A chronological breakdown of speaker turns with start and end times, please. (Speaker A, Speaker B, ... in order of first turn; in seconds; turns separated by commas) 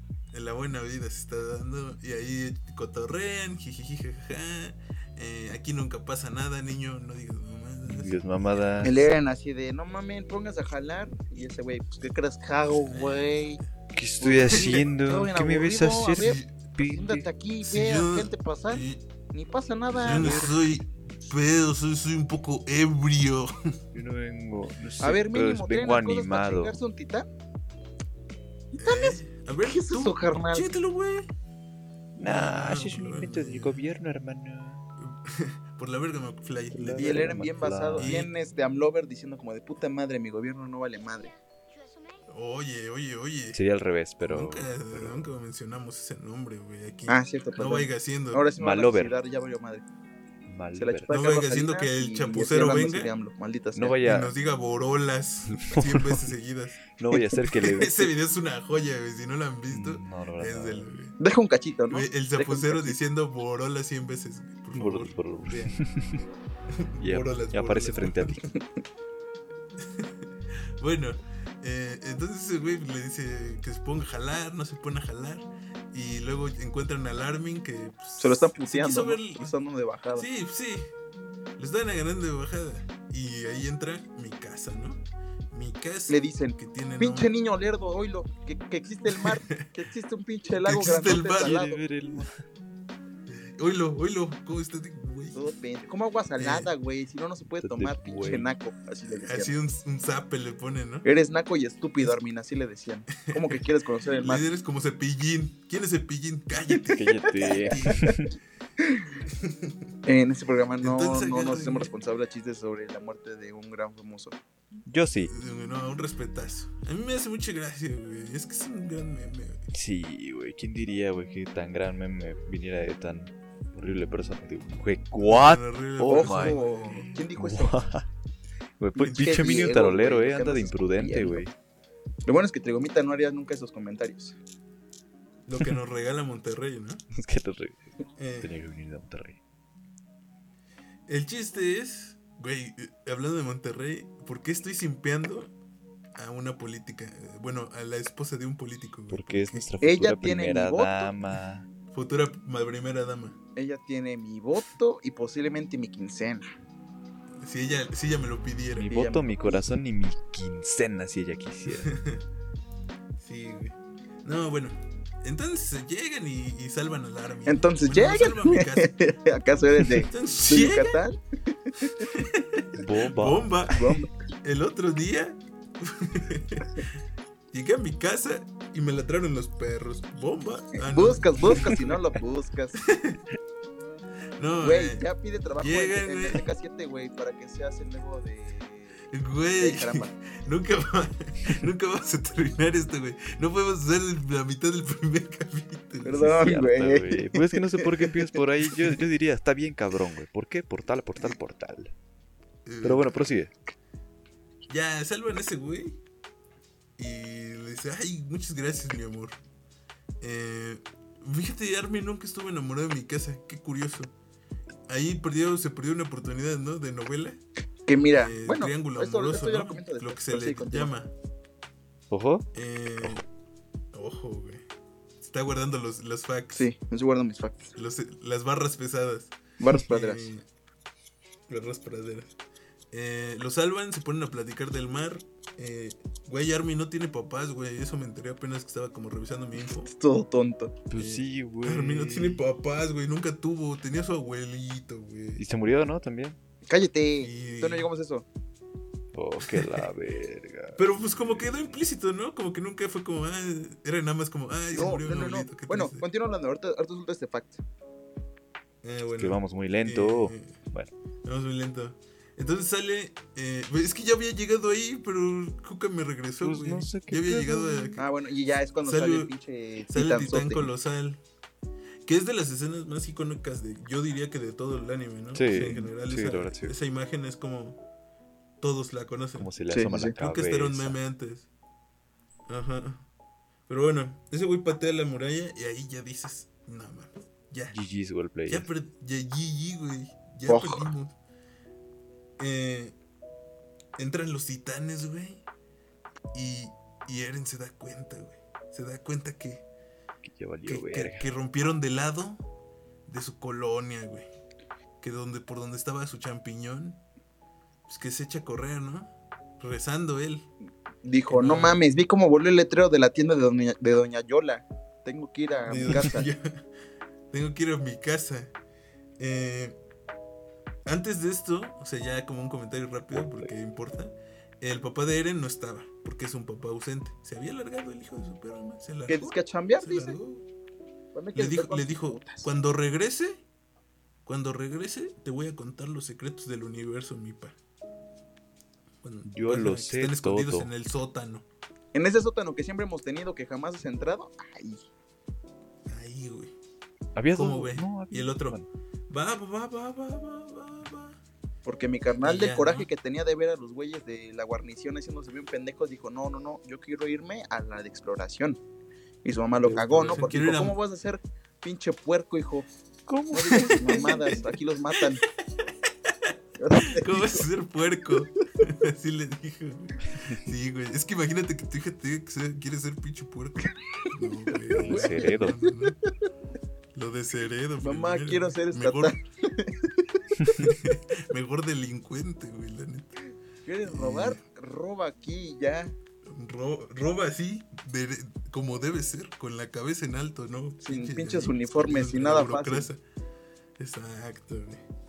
Speaker A: 0.3-9.0, Speaker B: 7.8-9.0, Speaker C: 8.8-13.6, Speaker A: 12.6-13.3, Speaker B: 13.9-17.2, Speaker C: 14.2-20.5, Speaker A: 14.5-14.9, Speaker A: 16.2-16.6, Speaker A: 17.6-19.0, Speaker B: 19.9-20.5, Speaker A: 20.0-23.8, Speaker B: 23.9-26.8, Speaker C: 25.0-27.3, Speaker C: 28.7-30.7, Speaker A: 28.8-31.3, Speaker B: 32.1-34.8, Speaker A: 32.2-33.8, Speaker A: 35.0-37.3, Speaker B: 36.7-38.2, Speaker C: 36.9-41.3, Speaker A: 38.0-38.3, Speaker A: 42.3-43.6, Speaker B: 43.5-45.3, Speaker A: 44.2-48.4, Speaker C: 47.1-49.9, Speaker B: 48.6-49.1, Speaker B: 50.5-51.1, Speaker C: 50.8-54.0, Speaker A: 51.1-53.1, Speaker B: 53.7-54.3, Speaker A: 54.0-56.8, Speaker B: 55.5-56.2, Speaker B: 57.0-58.1, Speaker A: 57.5-61.1, Speaker B: 59.7-60.9, Speaker C: 61.2-63.0, Speaker A: 61.9-65.8, Speaker B: 64.7-66.2, Speaker A: 66.7-68.4, Speaker B: 67.0-68.4, Speaker A: 69.8-79.5, Speaker C: 78.2-80.3, Speaker A: 80.1-80.9, Speaker A: 81.6-87.3, Speaker C: 86.1-91.8, Speaker A: 89.1-89.7, Speaker A: 90.5-91.6, Speaker B: 90.9-92.4, Speaker A: 93.3-95.5, Speaker C: 95.3-99.5, Speaker A: 96.4-96.7, Speaker B: 97.6-98.5, Speaker A: 99.1-101.0, Speaker C: 101.0-104.5, Speaker A: 103.2-103.7, Speaker A: 104.2-108.2, Speaker B: 106.9-108.3, Speaker C: 107.2-108.2, Speaker C: 108.8-109.2, Speaker A: 109.3-109.9, Speaker C: 110.0-114.4, Speaker A: 110.8-111.9, Speaker B: 114.8-115.3, Speaker A: 115.2-119.6, Speaker B: 119.7-128.0, Speaker A: 125.2-127.2, Speaker C: 126.1-127.8, Speaker B: 128.8-131.5, Speaker C: 128.9-131.4, Speaker A: 129.1-129.4, Speaker C: 132.2-134.4, Speaker A: 135.5-137.0, Speaker B: 137.1-137.8, Speaker A: 138.2-138.5, Speaker B: 138.4-139.4, Speaker A: 141.1-145.5, Speaker A: 146.1-149.7, Speaker B: 149.1-151.7, Speaker C: 149.8-151.1, Speaker A: 151.9-153.4, Speaker C: 153.6-156.5, Speaker A: 157.4-158.9, Speaker B: 158.8-161.9, Speaker C: 158.9-159.6, Speaker A: 161.7-162.2, Speaker A: 163.2-168.9, Speaker C: 167.5-172.1, Speaker A: 169.9-171.0, Speaker A: 172.1-173.8, Speaker B: 172.7-173.9, Speaker C: 173.7-174.1, Speaker A: 174.4-176.9, Speaker A: 177.5-181.9, Speaker C: 180.7-182.8, Speaker A: 182.8-183.2, Speaker A: 184.4-185.0, Speaker C: 184.6-190.1, Speaker A: 185.6-186.4, Speaker A: 189.1-196.5, Speaker C: 196.0-198.2, Speaker B: 196.3-201.9, Speaker A: 202.6-203.3, Speaker B: 202.8-203.5, Speaker A: 204.7-206.0, Speaker A: 207.0-209.4, Speaker A: 210.2-214.1, Speaker A: 214.9-217.4, Speaker C: 217.9-220.9, Speaker A: 218.1-221.1, Speaker B: 222.1-222.4, Speaker A: 222.5-223.2, Speaker A: 223.9-224.6, Speaker A: 225.2-226.7, Speaker C: 226.5-227.7, Speaker A: 227.8-230.4, Speaker C: 229.6-230.3, Speaker A: 231.5-232.3, Speaker A: 232.9-239.9, Speaker C: 239.8-240.8, Speaker B: 240.9-242.4, Speaker A: 240.9-245.4, Speaker B: 245.4-246.4, Speaker C: 246.7-248.2, Speaker A: 247.2-247.9, Speaker B: 249.1-250.8, Speaker A: 249.4-249.9, Speaker A: 250.8-256.0, Speaker C: 254.7-257.6, Speaker A: 258.8-260.5, Speaker B: 259.2-260.9, Speaker A: 261.2-268.0, Speaker B: 266.4-268.0, Speaker C: 268.0-270.7, Speaker A: 268.8-269.3, Speaker A: 269.9-271.2, Speaker A: 272.0-277.8, Speaker B: 275.3-276.7, Speaker A: 278.6-279.5, Speaker B: 279.4-281.0, Speaker C: 279.7-280.1, Speaker A: 280.1-281.5, Speaker A: 282.5-283.0, Speaker A: 283.7-287.8, Speaker B: 287.7-288.7, Speaker A: 288.5-291.1, Speaker C: 290.4-290.9, Speaker A: 292.4-292.9, Speaker A: 294.0-295.4, Speaker A: 296.3-299.6, Speaker B: 300.2-301.3, Speaker A: 300.6-302.4, Speaker A: 303.1-304.3, Speaker A: 305.0-307.0, Speaker A: 307.9-310.5, Speaker C: 311.0-316.3, Speaker A: 311.3-311.8, Speaker A: 315.6-316.6, Speaker A: 317.3-318.5, Speaker A: 319.2-319.8, Speaker A: 320.9-330.4, Speaker B: 323.1-323.5, Speaker C: 329.1-330.2, Speaker C: 331.1-332.5, Speaker A: 331.3-333.4, Speaker A: 334.2-337.6, Speaker A: 339.0-341.4, Speaker B: 339.2-340.7, Speaker C: 341.9-344.9, Speaker A: 345.9-346.5, Speaker B: 347.1-348.7, Speaker A: 347.3-351.2, Speaker C: 351.6-358.6, Speaker A: 352.2-352.9, Speaker C: 359.2-362.7, Speaker B: 359.6-360.3, Speaker A: 360.1-360.8, Speaker B: 363.1-364.4, Speaker C: 363.3-365.2, Speaker A: 363.5-364.4, Speaker A: 365.6-376.0, Speaker C: 366.6-367.4, Speaker C: 374.7-375.7, Speaker B: 374.7-375.6, Speaker A: 376.9-379.1, Speaker C: 377.8-380.2, Speaker A: 380.5-383.1, Speaker C: 383.6-385.9, Speaker A: 383.8-384.4, Speaker A: 386.2-393.0, Speaker C: 390.8-392.9, Speaker A: 393.8-394.8